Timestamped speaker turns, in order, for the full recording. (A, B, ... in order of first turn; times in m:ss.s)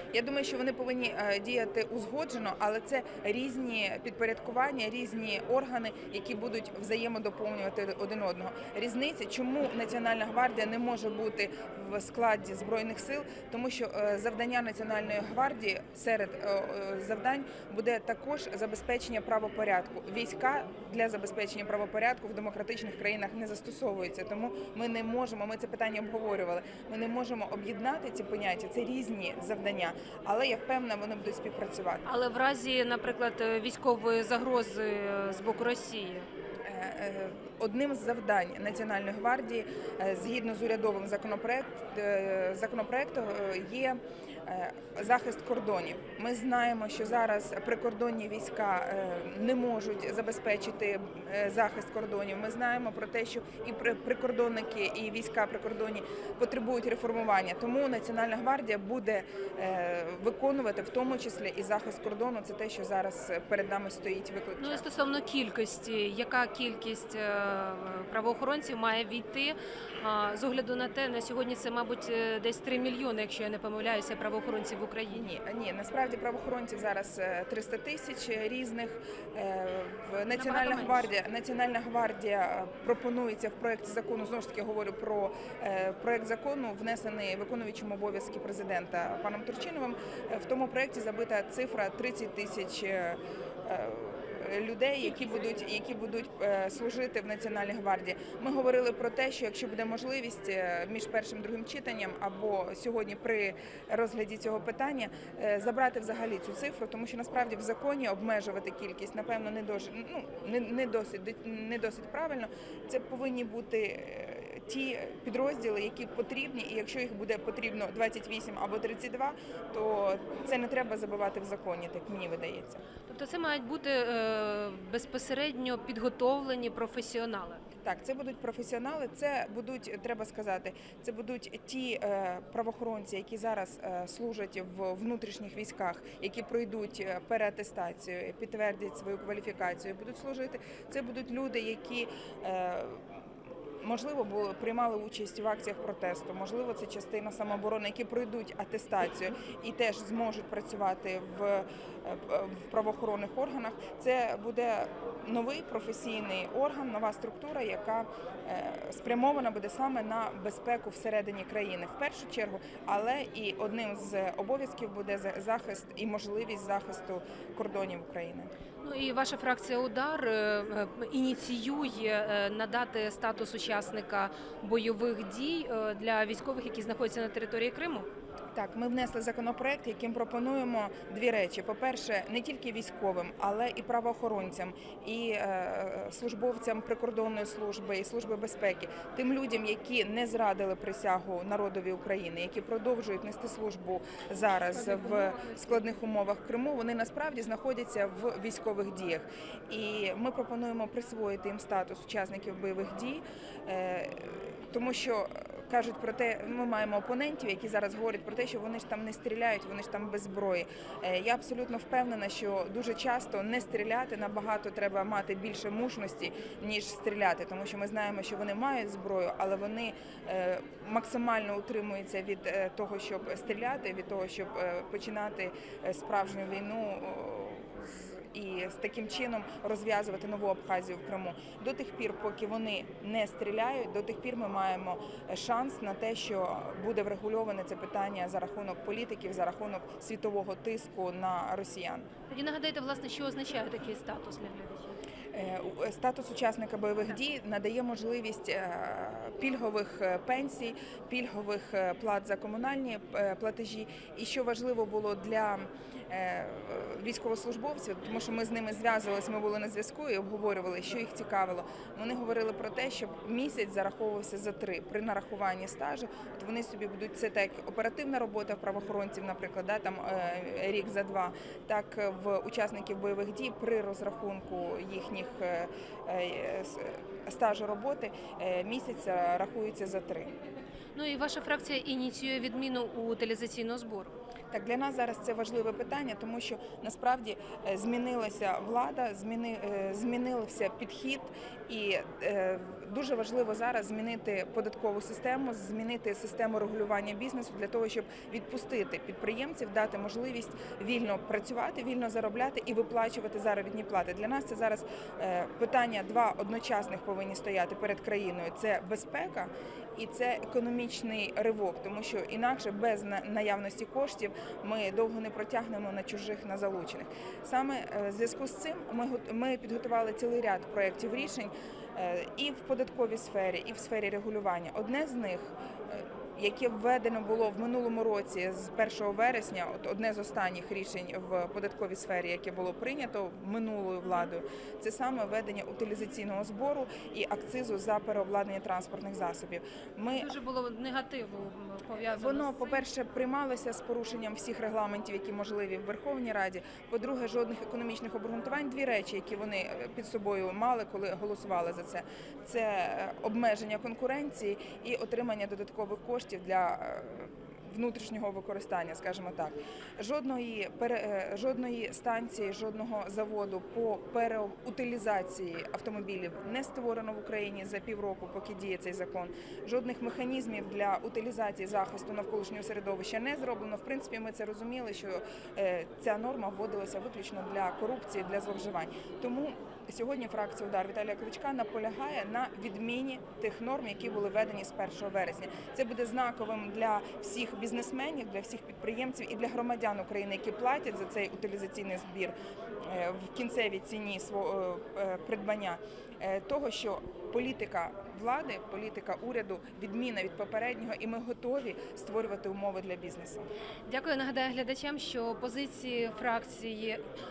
0:00.1-0:32.0 A
0:32.0-0:36.3 B
0:36.6-1:04.8 A
1:04.6-1:15.3 B
1:15.1-2:02.8 A
1:20.3-1:21.1 B
2:03.1-2:07.6 B
2:07.8-2:23.0 A
2:23.8-2:48.5 A
2:48.8-2:58.1 B
2:58.5-4:02.1 A
3:14.7-3:15.9 B
4:02.3-4:05.0 B
4:05.3-4:40.3 A
4:41.0-4:44.1 B
4:44.5-5:40.3 A
5:40.1-5:42.9 B
5:42.1-6:43.5 A
6:43.9-6:47.0 B